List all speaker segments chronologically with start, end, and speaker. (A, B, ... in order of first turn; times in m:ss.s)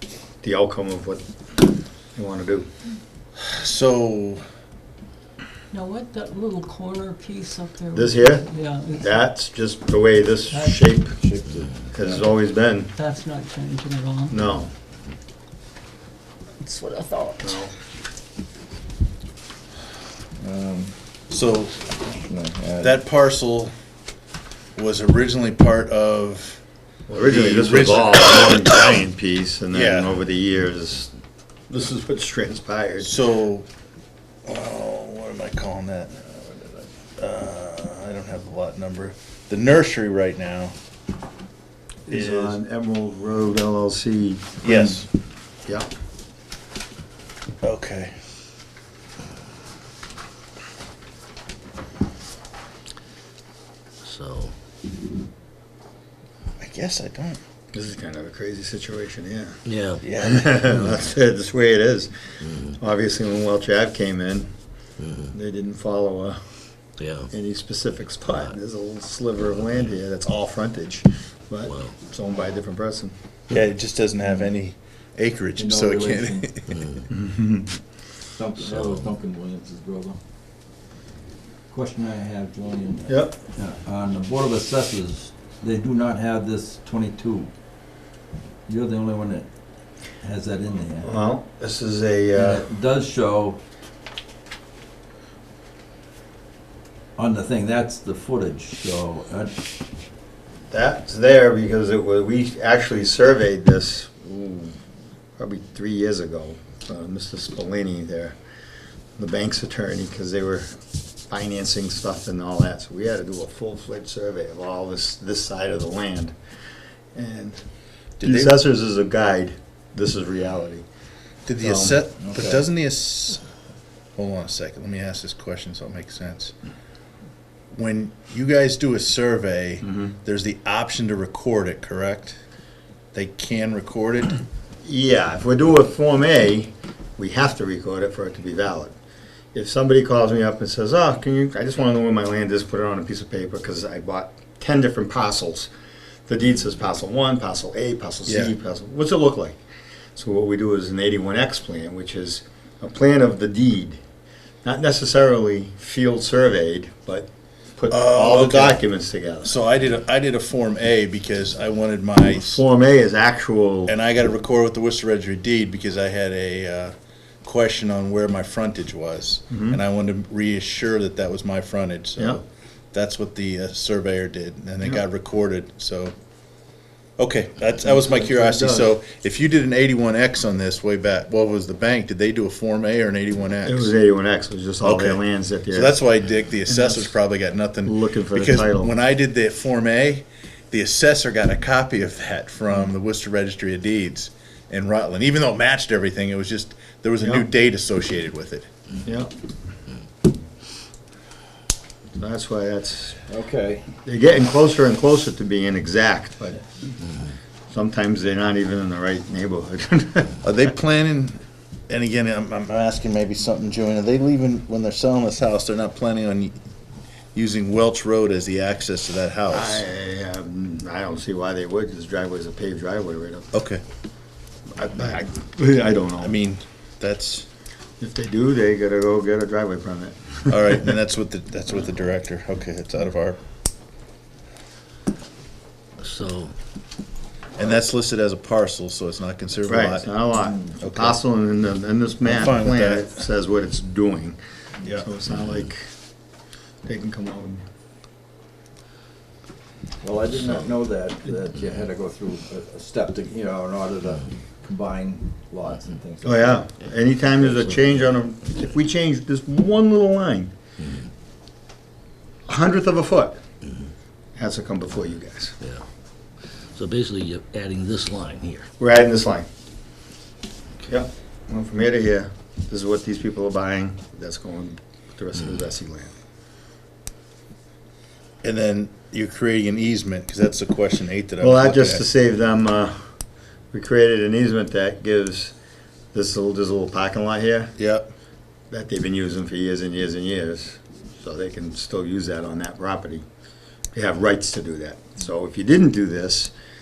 0:00.4-0:01.2 A
0:02.1-0:02.7 A
0:03.4-0:04.4 B
0:05.7-0:09.2 C
0:07.9-0:08.4 A
0:09.0-0:11.2 A
0:10.5-0:10.9 C
0:11.2-0:12.2 D
0:11.9-0:12.9 A
0:12.9-0:14.3 C
0:14.3-0:14.7 A
0:16.6-0:17.6 C
0:17.4-0:17.7 A
0:20.4-0:20.9 D
0:21.3-0:21.8 B
0:22.0-0:23.0 D
0:22.8-0:23.7 B
0:24.8-0:26.6 B
0:27.1-0:31.1 A
0:27.2-0:29.0 B
0:29.7-0:30.1 B
0:31.7-0:33.1 A
0:33.0-0:33.6 B
0:34.4-0:40.7 B
0:42.1-0:45.0 A
0:42.1-0:42.6 B
0:44.6-0:45.1 B
0:47.6-0:48.2 B
0:54.0-0:54.5 E
0:56.6-0:57.4 B
0:57.7-0:59.6 A
0:59.6-1:00.0 E
1:00.0-1:00.8 B
1:00.2-1:02.1 A
1:02.7-1:04.5 A
1:05.3-1:06.4 A
1:07.0-1:07.3 E
1:07.3-1:13.1 A
1:13.5-1:16.9 B
1:15.6-1:16.5 D
1:16.8-1:17.0 E
1:17.1-1:17.8 A
1:18.3-1:20.2 D
1:18.7-1:19.0 E
1:21.7-1:27.5 D
1:23.1-1:23.4 A
1:28.7-1:29.5 D
1:30.2-1:31.1 D
1:31.0-1:32.6 A
1:32.3-1:33.6 D
1:37.2-1:39.6 D
1:40.7-1:44.8 A
1:45.4-1:48.4 A
1:49.2-1:50.7 A
1:51.3-1:56.3 A
1:57.1-1:57.6 A
1:58.2-1:58.6 B
1:58.2-2:00.8 A
2:01.4-2:03.4 B
2:01.6-2:02.0 A
2:02.2-2:02.6 D
2:04.2-2:06.5 B
2:07.7-2:12.4 B
2:09.8-2:10.1 A
2:13.1-2:14.4 B
2:14.8-2:18.9 A
2:19.5-2:25.7 A
2:26.3-2:29.6 A
2:28.3-2:28.5 B
2:30.1-2:34.0 A
2:34.6-2:39.5 A
2:37.9-2:38.8 B
2:39.4-2:42.6 B
2:42.3-2:43.9 A
2:43.9-2:56.1 B
2:49.5-2:49.8 A
2:57.2-3:03.9 B
2:57.8-2:58.9 A
3:03.6-3:06.0 A
3:04.8-3:18.7 B
3:06.7-3:07.1 A
3:07.8-3:08.9 A
3:19.0-3:19.3 A
3:22.2-3:23.2 A
3:23.3-3:23.9 D
3:24.0-3:26.9 A
3:27.7-3:30.4 A
3:30.4-3:36.5 B
3:37.3-3:39.8 B
3:39.5-3:43.5 A
3:43.5-3:43.8 B
3:44.7-3:46.4 A
3:46.2-3:47.5 B
3:48.0-3:50.9 A
3:50.5-3:53.4 B
3:56.0-3:56.5 E
3:57.6-4:00.1 B
3:59.7-4:04.4 A
4:00.8-4:01.2 B
4:02.2-4:03.2 B
4:04.9-4:05.9 A
4:06.8-4:07.6 A
4:10.0-4:16.6 D
4:16.2-4:20.5 A
4:22.5-4:23.4 A
4:24.4-4:25.6 A
4:26.7-4:28.7 E
4:28.8-4:29.5 A
4:30.8-4:36.1 A
4:38.4-4:42.0 B
4:41.4-4:43.0 A
4:43.7-4:45.5 A
4:46.1-4:47.7 A
4:47.8-4:48.1 B
4:48.7-4:53.2 A
4:53.9-4:56.5 A